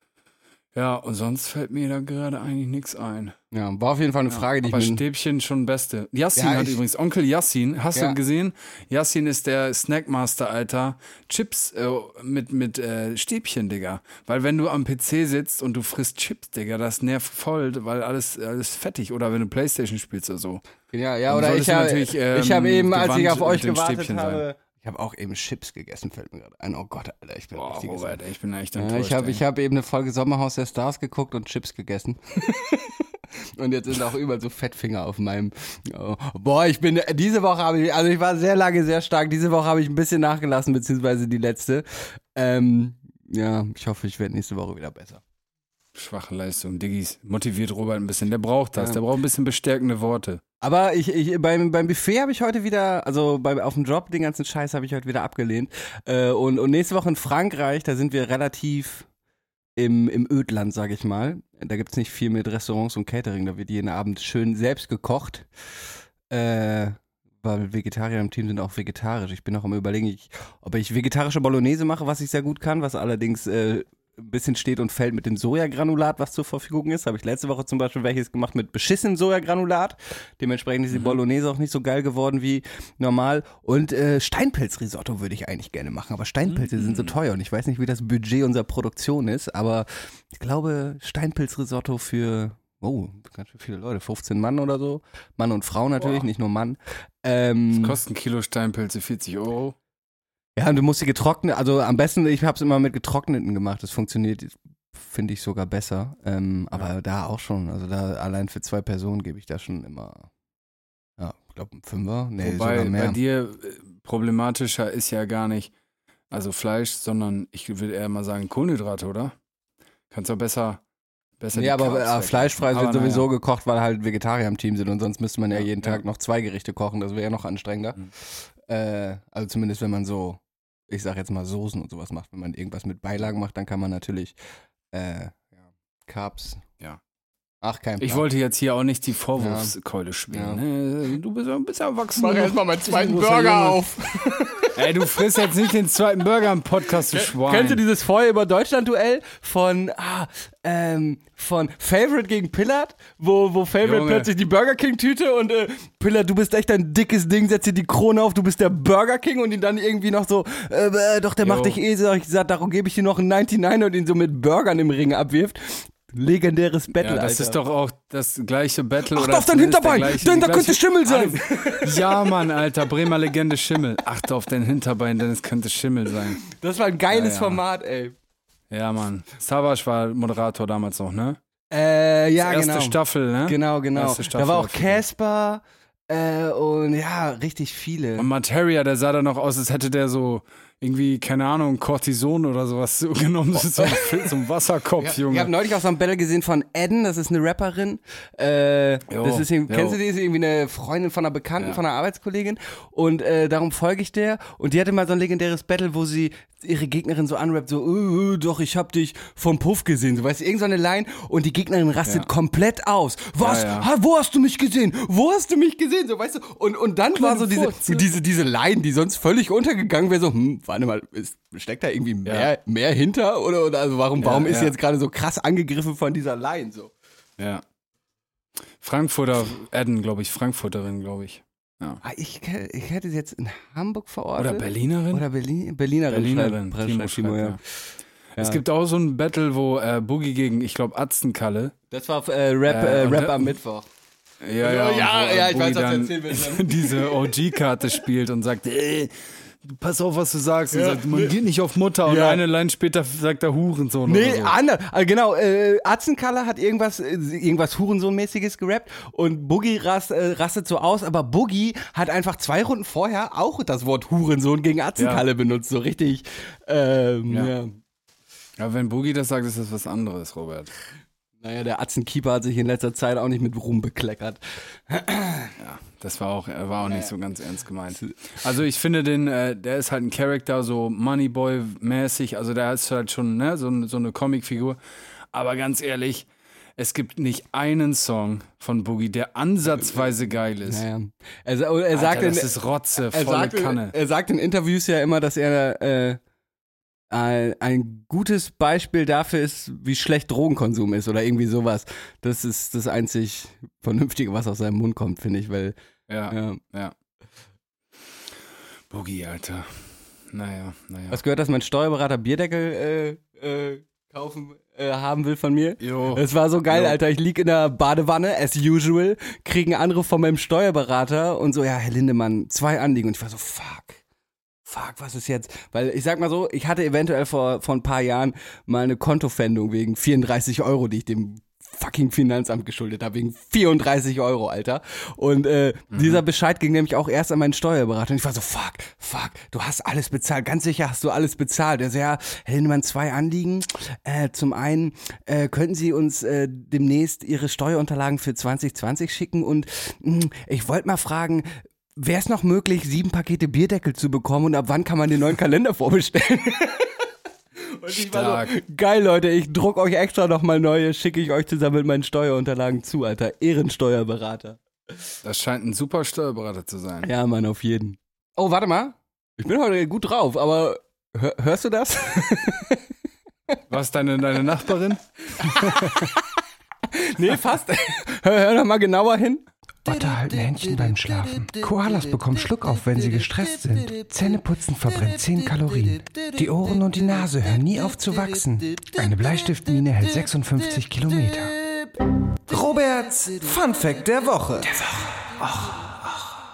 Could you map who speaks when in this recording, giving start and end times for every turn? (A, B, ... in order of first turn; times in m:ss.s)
0:00.7-0:03.4 A
0:03.5-0:05.0 B
0:04.3-0:20.6 A
0:06.4-0:06.8 B
0:20.9-0:28.2 B
0:21.3-0:24.4 A
0:27.5-0:29.4 A
0:28.8-0:32.8 B
0:33.5-0:45.2 B
0:45.9-0:50.4 A
0:50.6-0:59.1 B
0:59.8-1:05.5 B
1:06.3-1:38.0 B
1:20.9-1:21.2 A
1:26.4-1:27.1 A
1:37.7-1:39.8 A
1:40.6-1:50.3 B
1:51.2-1:53.2 B
1:52.4-1:55.7 A
1:56.3-1:59.3 A
2:00.1-2:00.8 A
2:01.4-2:03.3 A
2:01.5-2:08.0 B
2:05.5-2:06.0 A
2:08.7-2:14.3 B
2:14.9-2:15.5 B
2:16.1-2:16.6 B
2:17.6-2:18.2 B
2:18.0-2:23.8 A
2:19.4-2:19.7 B
2:20.3-2:20.6 B
2:22.1-2:25.2 B
2:24.7-2:27.8 A
2:27.0-2:47.6 B
2:33.8-2:34.3 A
2:41.4-2:41.8 A
2:47.0-2:56.4 A
2:49.1-2:52.3 B
2:56.5-2:58.1 B
2:57.1-2:57.6 A
2:58.7-3:01.4 A
3:01.7-3:08.3 B
3:02.4-3:05.0 A
3:08.2-3:15.5 A
3:13.7-3:14.3 B
3:15.0-3:46.9 B
3:19.1-3:20.0 A
3:33.4-3:33.9 A
3:37.1-3:38.1 A
3:44.2-3:44.7 A
3:47.4-3:47.6 A
3:48.8-3:52.0 A
3:52.0-3:57.6 B
3:54.4-3:55.2 A
3:56.1-3:57.6 A
3:58.4-4:01.7 A
4:01.9-4:03.9 B
4:02.7-4:03.5 A
4:04.4-4:14.5 A
4:04.6-4:07.3 B
4:10.7-4:11.3 B
4:12.0-4:12.4 B
4:14.0-4:27.7 B
4:25.0-4:25.2 A
4:28.6-4:30.7 A
4:31.4-4:35.5 B
4:35.6-4:44.8 A
4:36.8-4:37.1 B
4:45.3-4:50.8 A
4:50.6-4:56.2 B
4:51.9-4:53.9 A
4:57.1-5:05.7 B
5:06.1-5:06.9 A
5:06.3-5:06.6 B
5:08.9-5:11.2 A
5:11.1-5:24.0 B
5:15.8-5:17.0 A
5:24.6-5:56.9 B
5:35.9-5:36.2 A
5:57.6-6:04.6 B
5:57.9-5:58.5 A
6:05.2-6:07.1 A
6:07.0-6:12.8 B
6:13.7-6:16.1 A
6:15.5-6:16.1 B
6:16.9-6:19.4 B
6:19.8-6:31.6 C
6:32.5-6:35.9 C